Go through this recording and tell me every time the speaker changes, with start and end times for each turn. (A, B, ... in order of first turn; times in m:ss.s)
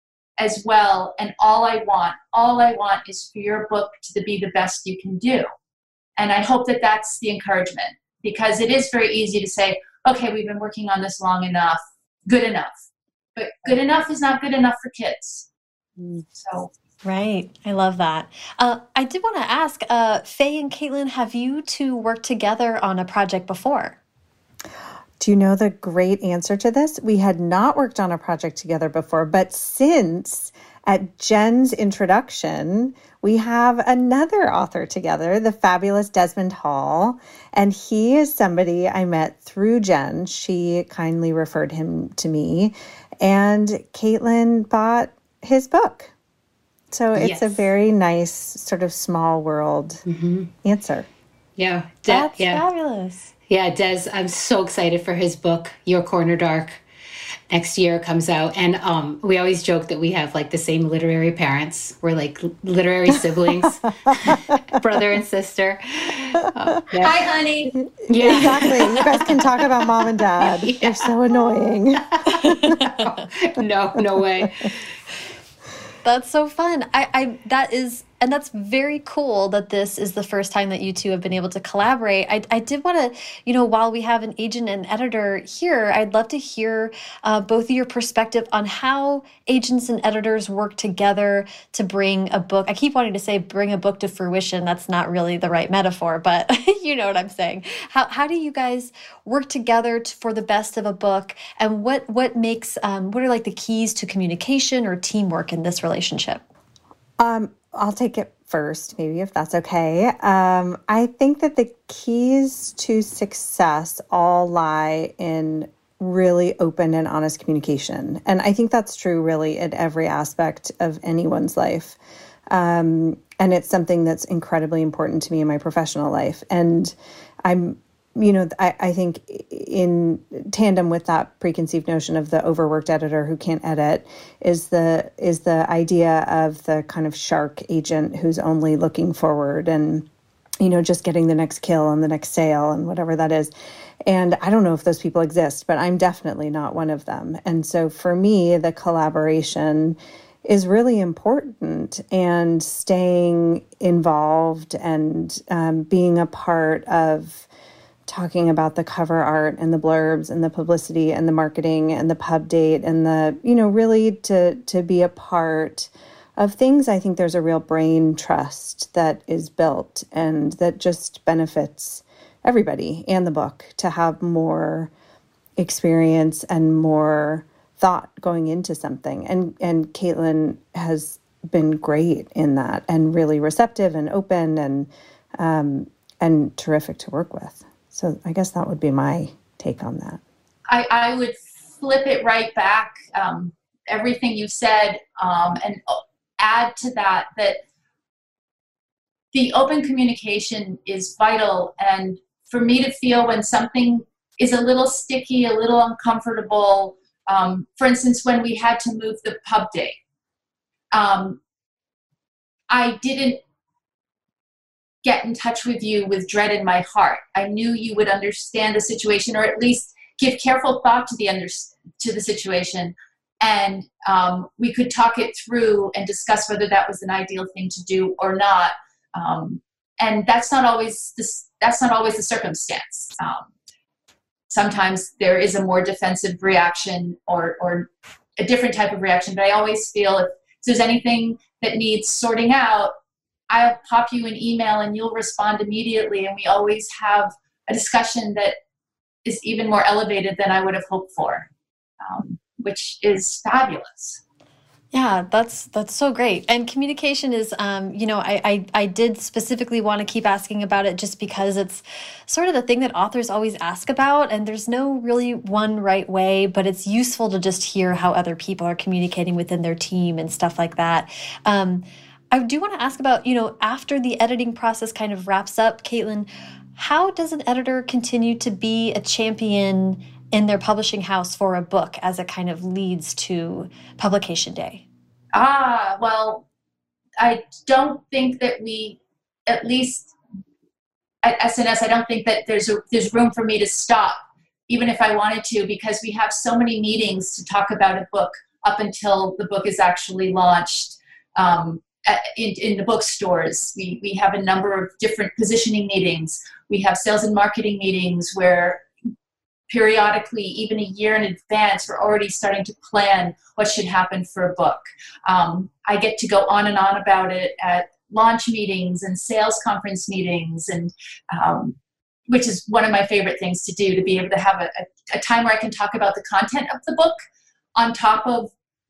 0:00.4-0:05.4 A
0:06.2-0:12.8 A
0:13.4-0:15.5 A
0:16.0-0:16.2 B
0:16.4-0:16.7 A
0:17.0-0:24.0 C
0:25.2-0:46.1 D
0:46.9-0:50.0 D
0:47.2-0:47.6 B
0:50.1-0:50.5 B
0:50.6-0:51.1 D
0:51.6-0:52.6 B
0:52.1-0:53.3 C
0:53.5-0:56.8 B
0:57.5-1:07.3 B
1:04.1-1:04.5 D
1:07.0-1:07.7 A
1:08.1-1:09.5 B
1:08.1-1:12.9 D
1:10.4-1:11.1 B
1:11.7-1:14.8 B
1:12.3-1:12.8 C
1:16.0-1:46.4 C
1:47.2-2:02.0 D
2:02.5-2:06.9 D
2:07.4-2:20.1 D
2:20.6-2:23.5 D
2:24.0-2:37.5 D
2:38.1-2:54.9 D
2:55.6-3:10.2 D
3:10.7-3:17.6 A
3:19.3-3:30.0 A
3:30.9-3:31.4 A
3:32.7-3:33.4 A
3:35.0-3:53.5 A
3:54.5-4:02.9 A
4:03.5-4:08.5 A
4:09.2-4:11.5 A
4:12.0-4:14.2 A
4:14.9-4:44.8 C
4:45.3-4:46.4 A
4:47.2-4:50.1 A
4:51.2-5:08.9 A
5:09.7-5:21.8 A
5:22.3-5:27.2 A
5:27.8-5:28.5 A